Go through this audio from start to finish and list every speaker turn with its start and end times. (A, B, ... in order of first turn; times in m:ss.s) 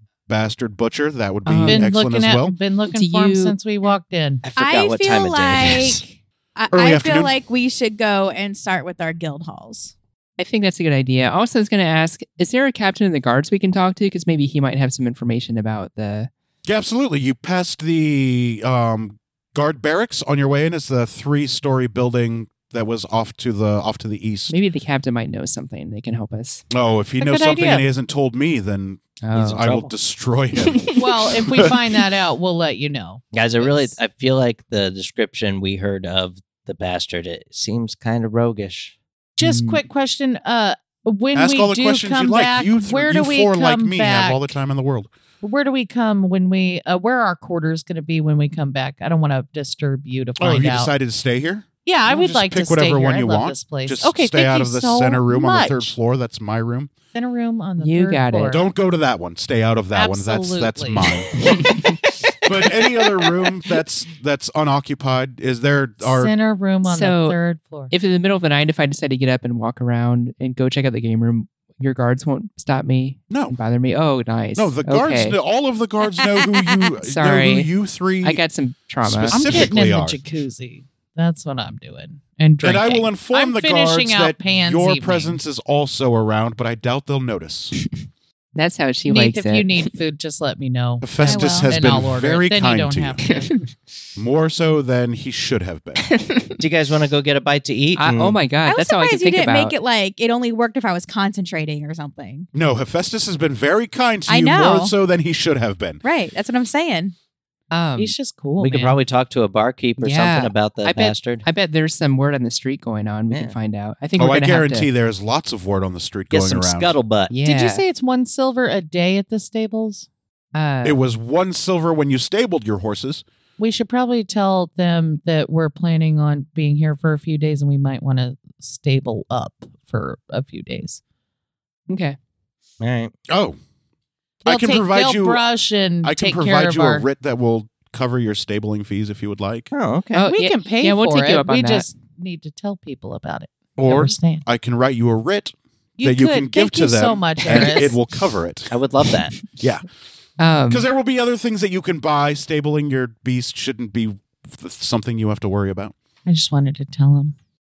0:00.3-0:02.6 A
0:01.5-0:01.9 B
0:01.6-0:04.4 C
0:02.9-0:03.6 B
0:04.4-0:06.0 D
0:04.6-0:09.9 E
0:06.7-0:07.3 A
0:10.4-0:16.3 B
0:16.7-0:24.5 A
0:24.5-0:26.6 B
0:26.7-0:31.8 A
0:27.2-0:27.8 C
0:29.2-0:29.7 B
0:29.3-0:29.9 D
0:30.6-0:31.0 B
0:31.0-0:34.0 C
0:33.3-0:39.0 D
0:39.4-0:44.6 C
0:39.4-0:39.8 B
0:41.3-0:45.1 A
0:45.4-0:50.9 C
0:50.4-0:56.9 A
0:51.8-0:55.9 C
0:57.1-0:58.6 C
0:57.8-0:58.6 B
0:58.5-1:01.7 A
0:59.9-1:01.1 C
1:01.4-1:02.1 B
1:02.4-1:06.3 A
1:06.0-1:07.9 C
1:06.8-1:07.4 B
1:07.9-1:15.4 B
1:13.3-1:13.6 A
1:14.6-1:18.4 A
1:17.0-1:17.7 B
1:18.2-1:19.4 B
1:19.0-1:20.2 A
1:19.2-1:25.4 C
1:22.6-1:27.8 A
1:28.6-1:29.7 B
1:29.1-1:33.6 C
1:31.0-1:33.3 A
1:31.2-1:31.8 E
1:33.2-1:33.8 B
1:34.2-1:36.1 A
1:36.0-1:36.6 B
1:36.6-1:38.4 D
1:38.0-1:39.8 B
1:38.6-1:42.5 E
1:42.5-1:46.0 A
1:44.3-1:44.9 E
1:46.0-1:47.2 E
1:47.7-1:48.1 B
1:48.0-1:49.0 C
1:48.6-1:51.4 D
1:50.0-1:54.9 B
1:54.2-1:57.0 A
1:56.3-1:57.3 D
1:57.3-1:57.8 B
1:57.4-2:00.1 C
2:00.6-2:01.0 B
2:00.8-2:03.2 A
2:03.6-2:11.0 C
2:11.9-2:12.2 B
2:12.8-2:13.1 D
2:13.3-2:13.6 A
2:14.4-2:17.1 C
2:14.5-2:15.4 A
2:16.0-2:19.7 A
2:19.7-2:20.3 D
2:20.2-2:21.9 B
2:20.2-2:24.4 C
2:23.8-2:28.7 A
2:26.0-2:28.0 C
2:28.7-2:29.3 D
2:29.6-2:29.8 A
2:30.4-2:30.9 B
2:30.7-2:35.9 A
2:36.3-2:37.4 C